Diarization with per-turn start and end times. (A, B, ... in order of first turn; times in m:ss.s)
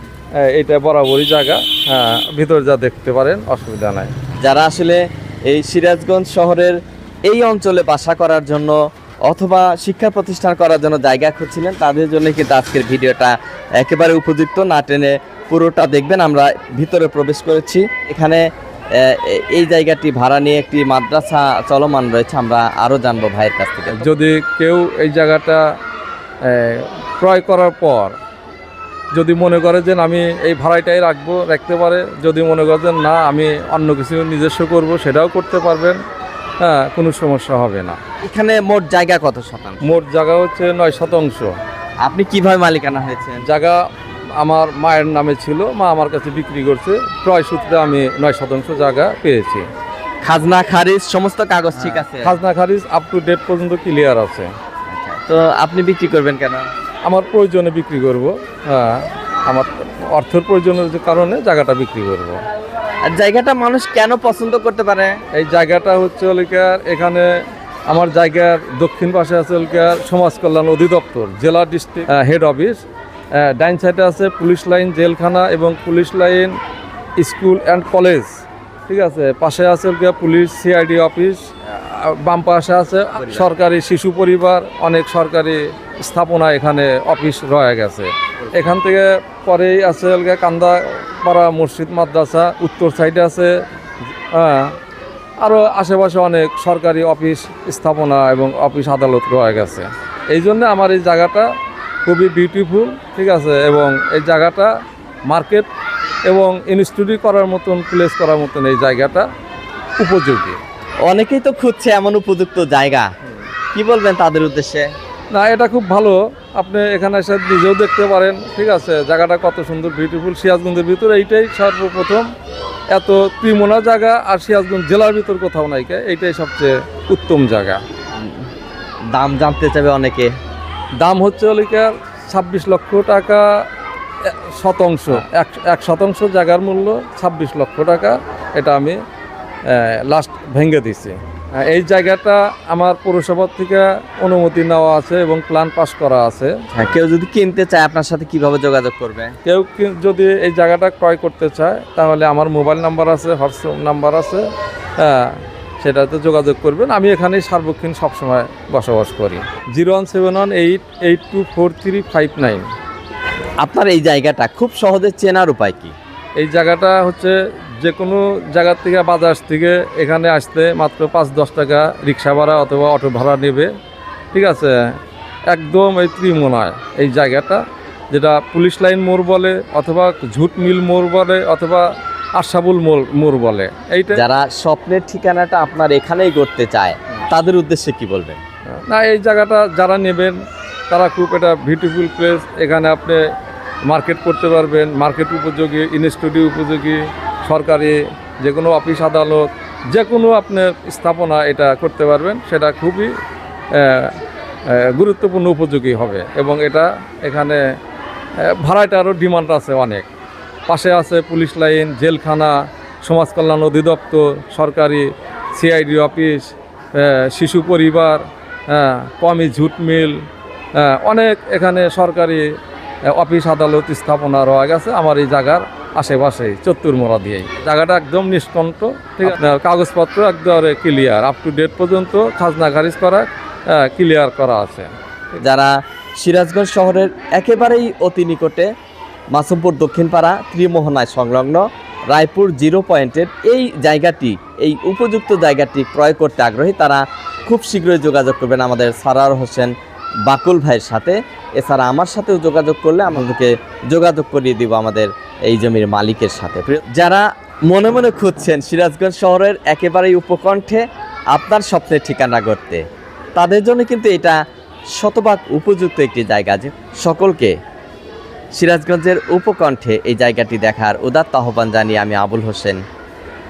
0:00.4-0:04.1 A
0:04.4-0:18.4 B
0:18.9-0:24.1 B
0:24.0-0:25.6 A
0:26.4-0:28.2 A
0:29.1-0:36.0 A
0:36.6-0:38.0 A
0:38.2-0:39.9 B
0:39.8-0:41.5 A
0:42.0-0:43.4 B
0:43.4-0:43.8 A
0:44.4-0:49.7 A
0:50.2-0:52.4 B
0:51.8-0:54.5 A
0:54.9-0:56.7 B
0:57.0-1:02.4 A
1:03.0-1:05.2 B
1:05.3-1:07.3 A
1:07.9-1:12.8 A
1:13.4-1:16.6 A
1:17.2-1:33.5 A
1:23.2-1:23.5 B
1:28.4-1:28.7 B
1:34.3-1:34.7 A
1:35.4-1:41.5 A
1:42.0-1:44.7 A
1:45.3-1:45.7 A
1:46.3-1:49.3 A
1:50.0-1:50.6 A
1:51.0-1:53.1 B
1:53.7-1:54.9 B
1:55.3-2:02.3 A
2:02.9-2:07.8 A
2:08.1-2:08.5 B
2:09.1-2:10.3 B
2:11.0-2:13.5 A
2:14.2-2:19.0 A
2:19.6-2:26.6 A
2:26.7-2:29.4 B
2:29.4-2:34.5 A
2:35.0-2:42.7 A
2:43.6-2:45.9 B
2:46.4-2:53.7 A
2:54.3-2:54.8 A
2:55.5-3:04.2 A
3:04.1-3:08.4 B
3:08.7-3:10.4 A
3:10.9-3:13.2 A
3:13.8-3:23.1 A
3:23.7-3:27.6 A
3:28.4-3:30.1 A
3:30.7-3:42.5 A
3:43.0-3:54.9 A
3:55.4-3:58.7 B
3:59.3-4:09.7 B
4:10.2-4:22.8 B
4:23.4-4:24.4 B
4:25.0-4:27.6 B
4:28.5-4:32.8 B